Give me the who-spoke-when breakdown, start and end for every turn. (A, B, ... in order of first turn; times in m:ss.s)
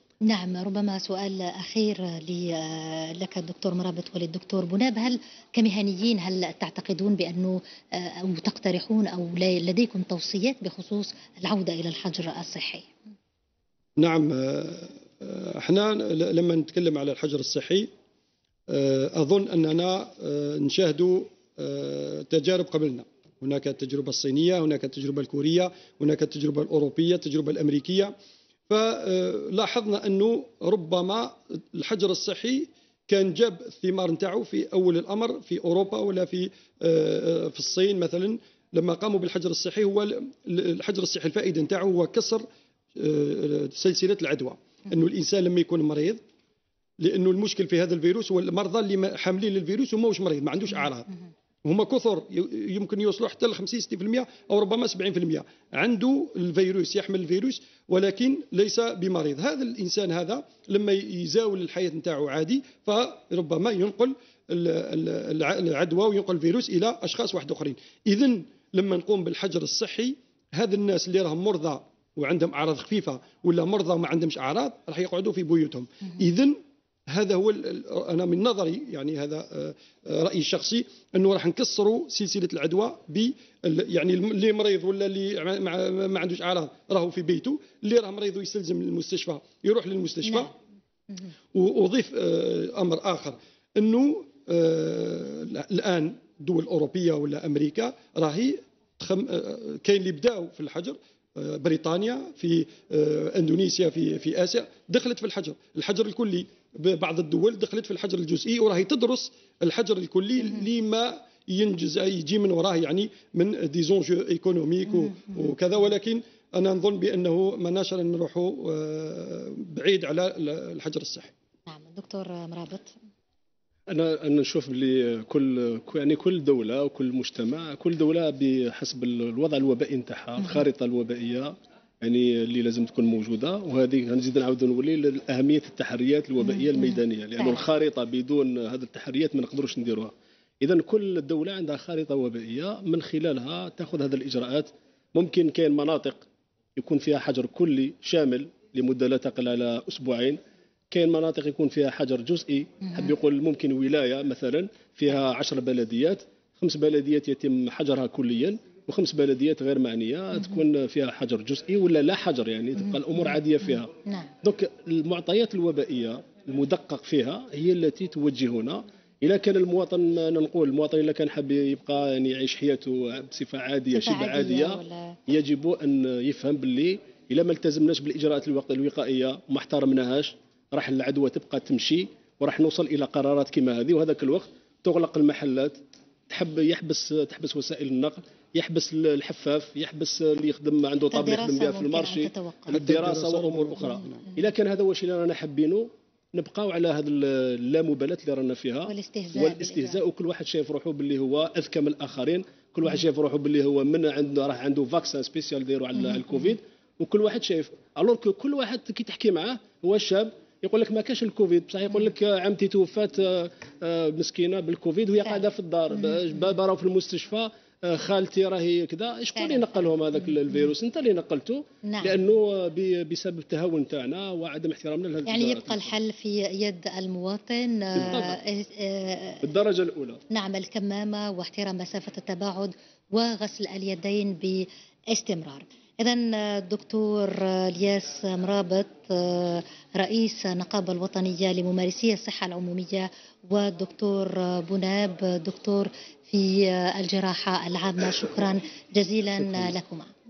0:00.2-0:12.9 A
0:14.0-0:17.9 B
0:18.7-0:28.1 B
0:28.7-0:42.4 B
0:43.0-0:46.2 B
0:47.0-0:51.1 B
0:51.6-1:16.6 B
1:17.1-1:30.5 B
1:31.5-2:01.3 B
2:01.7-2:02.9 A
2:03.9-2:26.2 C
2:16.4-2:17.6 A
2:26.8-2:30.4 C
2:30.9-2:43.9 C
2:44.0-2:44.3 A
2:44.4-3:05.8 C
2:53.9-2:55.2 A
3:06.3-3:45.9 C
3:11.1-3:12.9 A
3:12.7-3:14.1 B
3:18.8-3:20.0 A
3:39.4-3:39.8 A
3:41.8-3:42.2 A
3:45.3-3:49.4 A
3:48.0-3:48.4 C
3:49.4-3:50.2 C
3:50.3-4:10.1 A